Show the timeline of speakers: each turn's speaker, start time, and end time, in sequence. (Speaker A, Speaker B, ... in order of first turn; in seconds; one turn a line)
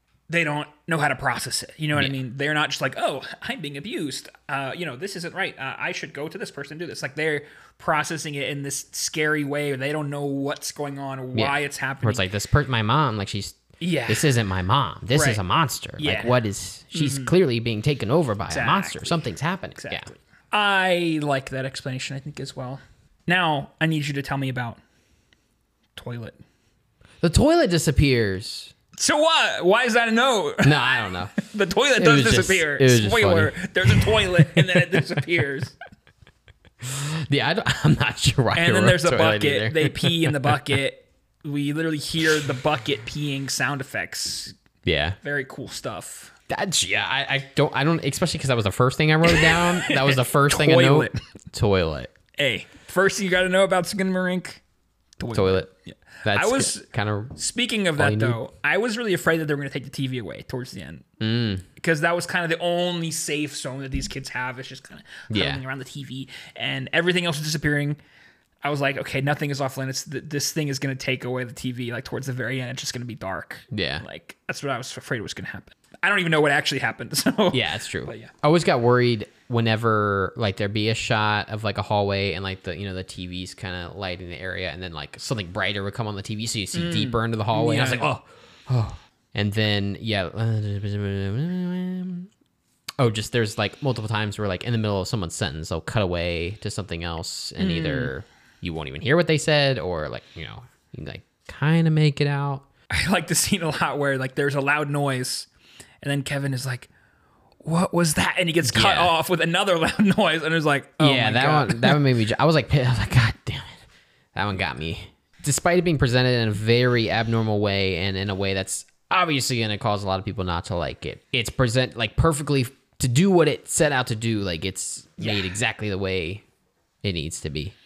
Speaker A: 0.3-12.2
Speaker B: 11.3-20.1
Speaker A: 13.8-14.3
Speaker A: 15.1-15.4
Speaker A: 16.0-16.4
Speaker A: 16.9-17.3
Speaker A: 18.5-19.2
Speaker A: 19.8-24.8
Speaker A: 25.9-26.4
Speaker B: 27.2-28.7
Speaker A: 28.9-30.8
Speaker B: 30.6-31.4
Speaker A: 31.4-35.7
Speaker B: 31.9-35.0
Speaker B: 36.8-40.7
Speaker A: 38.5-44.5
Speaker B: 44.8-45.2
Speaker A: 45.2-46.3
Speaker B: 46.5-52.1
Speaker A: 49.2-51.2
Speaker A: 52.4-54.6
Speaker A: 55.2-61.0
Speaker B: 55.3-55.7
Speaker B: 56.2-57.4
Speaker B: 58.0-58.4
Speaker B: 61.2-61.7
Speaker A: 61.8-68.0
Speaker B: 65.3-65.6
Speaker A: 68.6-78.3
Speaker B: 73.7-74.0
Speaker B: 77.5-92.3
Speaker A: 86.7-88.1
Speaker B: 93.0-102.6
Speaker A: 97.6-98.1
Speaker A: 102.9-105.5
Speaker A: 106.0-106.9
Speaker A: 107.6-112.0
Speaker B: 108.6-109.1
Speaker B: 111.0-113.8
Speaker B: 114.3-126.4
Speaker B: 127.0-127.8